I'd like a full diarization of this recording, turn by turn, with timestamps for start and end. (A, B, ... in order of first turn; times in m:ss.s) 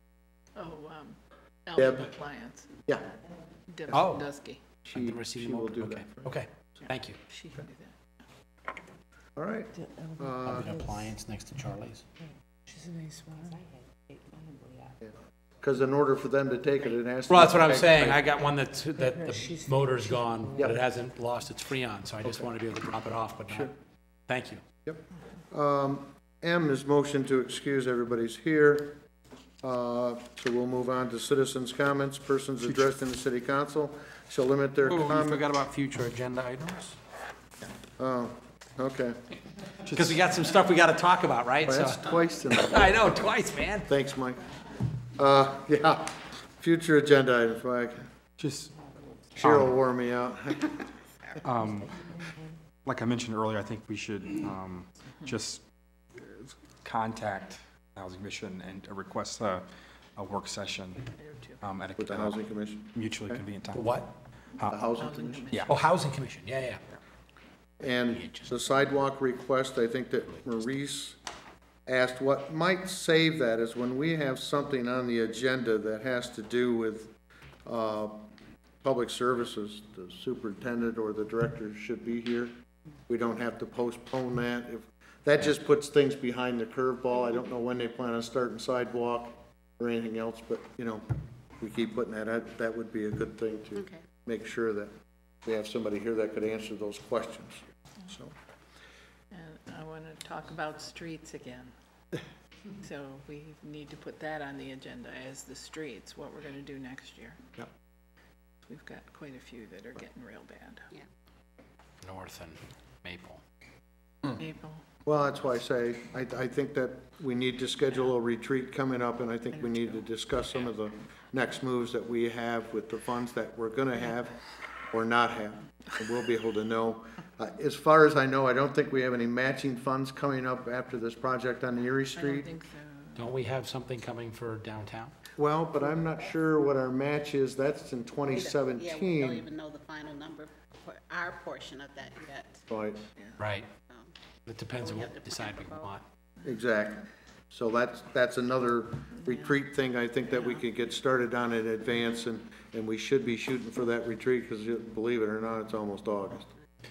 0:00.6-0:02.7 A
0:01.8-0:02.1 B
0:02.9-0:03.1 B
0:03.7-0:04.6 A
0:03.9-0:04.3 C
0:04.8-0:06.3 B
0:04.9-0:07.2 C
0:06.9-0:08.0 A
0:09.4-0:10.7 B
0:10.4-0:12.1 C
0:15.0-0:18.2 B
0:17.3-0:23.7 C
0:24.3-0:24.6 C
0:24.9-0:29.0 B
0:29.6-0:35.4 B
0:34.8-0:37.0 C
0:38.0-0:39.2 B
0:39.9-0:40.2 D
0:39.9-0:43.9 C
0:41.6-0:42.9 B
0:43.9-0:44.5 B
0:45.1-0:48.0 B
0:48.4-0:48.7 D
0:49.4-0:49.7 D
0:49.4-0:50.9 B
0:51.4-0:52.1 D
0:52.8-0:55.6 D
0:56.2-1:02.4 D
1:01.3-1:01.6 A
1:02.0-1:03.4 B
1:02.9-1:04.0 D
1:03.7-1:04.1 C
1:04.6-1:04.9 D
1:04.7-1:05.6 B
1:05.0-1:05.7 A
1:05.5-1:05.8 D
1:05.7-1:06.8 C
1:07.8-1:11.2 B
1:08.1-1:08.9 C
1:11.9-1:17.1 B
1:17.6-1:18.3 B
1:18.8-1:22.5 B
1:23.1-1:31.0 B
1:31.6-1:34.9 B
1:35.4-1:38.3 B
1:39.3-1:41.7 A
1:42.8-1:47.4 A
1:48.6-1:50.9 A
1:52.0-1:53.4 C
1:54.3-1:54.8 A
1:55.1-2:04.4 B
2:04.9-2:12.5 B
2:12.2-2:13.3 A
2:13.2-2:15.1 C
2:15.4-2:19.5 B
2:18.3-2:22.6 E
2:22.7-2:23.0 B
2:23.4-2:23.7 C
2:23.9-2:24.1 E
2:24.5-2:26.0 C
2:24.8-2:25.9 E
2:26.4-2:36.5 B
2:29.2-2:29.6 A